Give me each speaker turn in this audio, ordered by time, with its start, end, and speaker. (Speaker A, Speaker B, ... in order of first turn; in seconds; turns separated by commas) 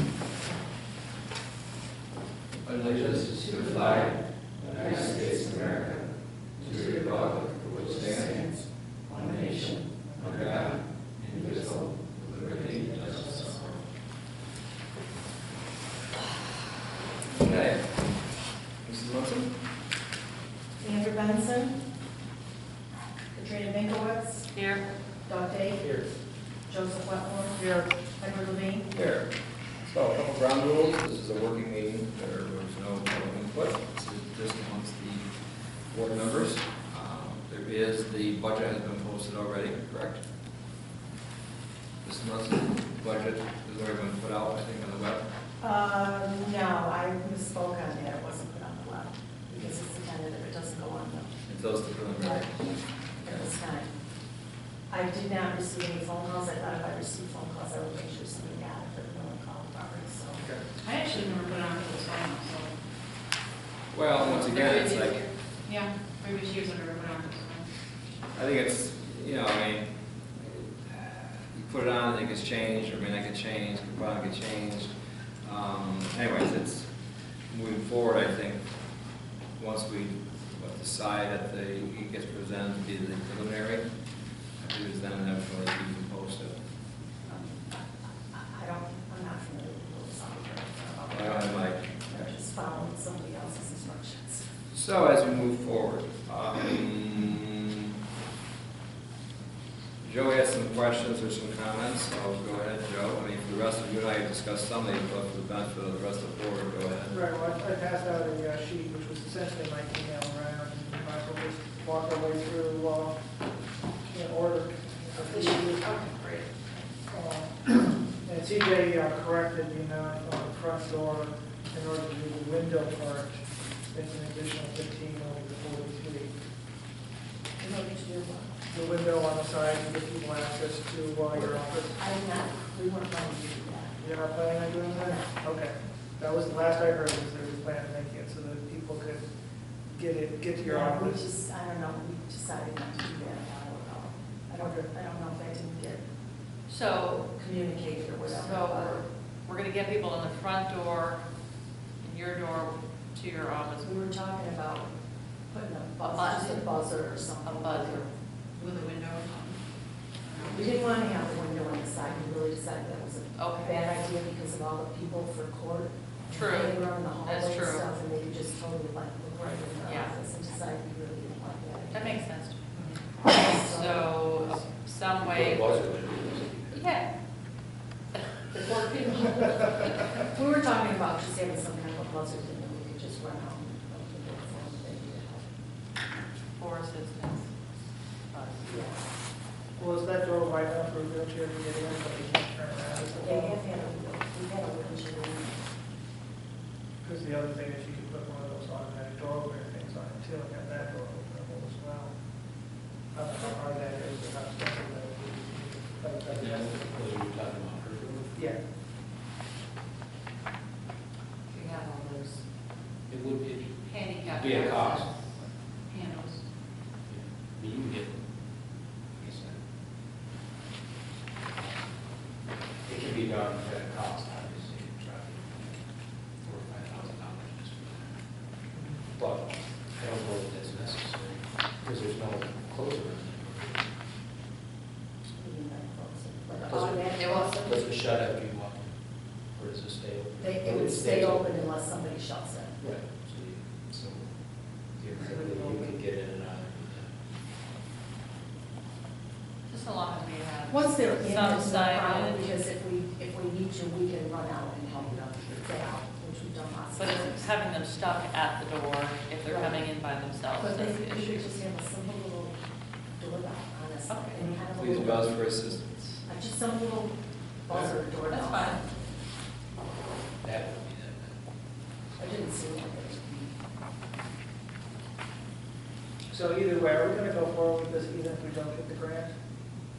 Speaker A: 2.6-5.8, Speaker B: 3.6-4.0, Speaker B: 4.7-6.0, Speaker A: 6.6-8.5, Speaker B: 9.2-9.6, Speaker A: 10.2-13.8, Speaker A: 17.3-18.0, Speaker A: 18.8-19.5, Speaker C: 20.8-21.8, Speaker C: 23.3-24.5, Speaker D: 24.5-24.9, Speaker C: 25.3-25.9, Speaker A: 25.8-26.1, Speaker C: 26.7-28.9, Speaker E: 27.6-27.9, Speaker A: 28.9-29.3, Speaker A: 29.9-35.3, Speaker A: 35.9-40.2, Speaker A: 42.0-45.3, Speaker C: 45.6-51.4, Speaker A: 51.5-52.6, Speaker C: 52.2-52.5, Speaker C: 53.2-53.9, Speaker C: 54.9-60.5, Speaker D: 60.8-62.7, Speaker A: 63.9-65.2, Speaker D: 64.2-67.7, Speaker A: 68.3-74.9, Speaker A: 75.4-76.9, Speaker A: 77.5-78.7, Speaker A: 79.6-83.8, Speaker A: 84.6-86.6, Speaker C: 87.3-87.8, Speaker C: 88.3-94.5, Speaker A: 91.1-91.9, Speaker A: 94.7-97.9, Speaker A: 100.0-107.2, Speaker E: 107.1-113.2, Speaker E: 114.0-115.9, Speaker D: 115.1-116.9, Speaker E: 117.1-126.3, Speaker C: 127.6-128.6, Speaker E: 128.7-132.0, Speaker C: 131.9-134.0, Speaker E: 134.0-139.2, Speaker C: 135.0-135.3, Speaker E: 139.9-141.3, Speaker C: 140.6-146.0, Speaker E: 144.6-144.9, Speaker D: 146.7-147.3, Speaker C: 147.3-149.0, Speaker D: 148.3-151.2, Speaker D: 152.0-153.9, Speaker C: 153.8-154.9, Speaker C: 155.5-158.1, Speaker D: 156.1-156.7, Speaker D: 157.4-159.6, Speaker D: 160.3-160.7, Speaker C: 160.5-172.2, Speaker D: 163.3-163.8, Speaker D: 166.3-167.9, Speaker D: 169.8-170.1, Speaker D: 171.9-175.7, Speaker C: 173.2-174.7, Speaker B: 175.1-176.9, Speaker D: 176.7-177.1, Speaker D: 178.2-180.0, Speaker C: 180.2-185.5, Speaker D: 186.6-187.5, Speaker D: 188.3-188.7, Speaker C: 188.7-189.0, Speaker E: 189.8-193.6, Speaker C: 193.0-195.6, Speaker E: 197.0-202.1, Speaker E: 203.1-207.0, Speaker B: 206.2-208.3, Speaker E: 208.3-208.6, Speaker D: 211.5-212.4, Speaker B: 213.1-215.1, Speaker D: 213.8-215.3, Speaker D: 215.9-216.4, Speaker B: 217.1-218.2, Speaker B: 219.1-219.6, Speaker B: 221.5-221.8, Speaker B: 222.8-225.8, Speaker B: 226.4-228.2, Speaker B: 229.2-233.9, Speaker C: 235.4-237.8, Speaker B: 236.6-238.9, Speaker D: 237.2-237.7, Speaker B: 239.5-241.6, Speaker C: 240.4-242.8, Speaker B: 242.8-244.3, Speaker B: 245.0-247.1, Speaker E: 245.2-245.7, Speaker D: 249.7-252.5, Speaker C: 250.7-257.5, Speaker D: 257.0-261.6, Speaker C: 259.5-259.9, Speaker C: 260.5-262.6, Speaker C: 263.1-265.4, Speaker D: 264.1-264.5, Speaker A: 264.7-266.2, Speaker C: 266.3-268.8, Speaker D: 268.3-268.9, Speaker B: 270.4-271.3, Speaker C: 272.2-273.5, Speaker E: 276.3-279.3